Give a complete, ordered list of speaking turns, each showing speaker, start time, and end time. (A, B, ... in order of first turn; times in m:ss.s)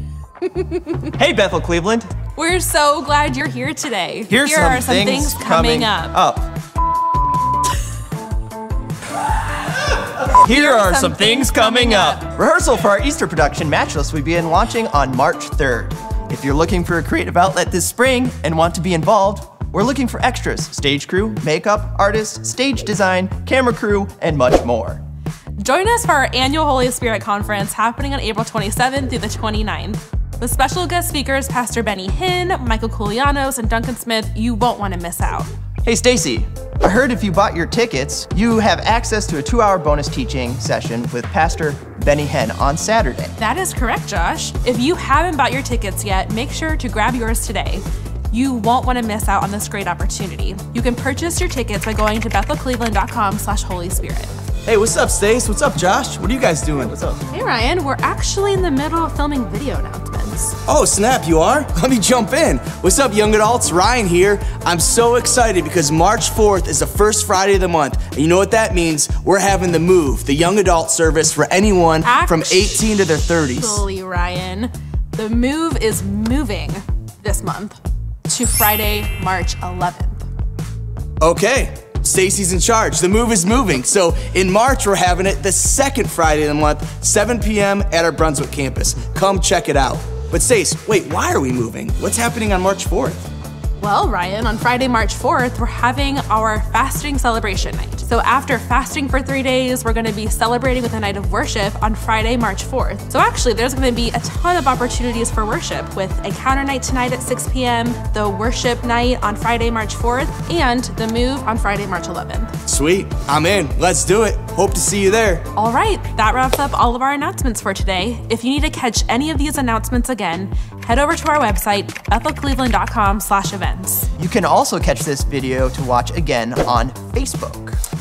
0:00.4-0:01.1 A
0:01.2-0:02.1 B
0:02.4-0:06.2 A
0:04.3-0:06.5 B
0:10.3-0:25.0 B
0:10.4-0:12.2 A
0:25.6-0:35.5 A
0:35.8-0:43.3 B
0:43.4-0:54.3 A
0:54.6-0:57.1 C
0:57.3-1:00.6 A
1:00.7-1:13.8 C
1:12.0-1:20.2 A
1:21.2-1:33.3 C
1:33.8-1:52.5 A
1:52.7-1:55.5 C
1:55.5-2:04.1 A
2:04.2-2:07.8 B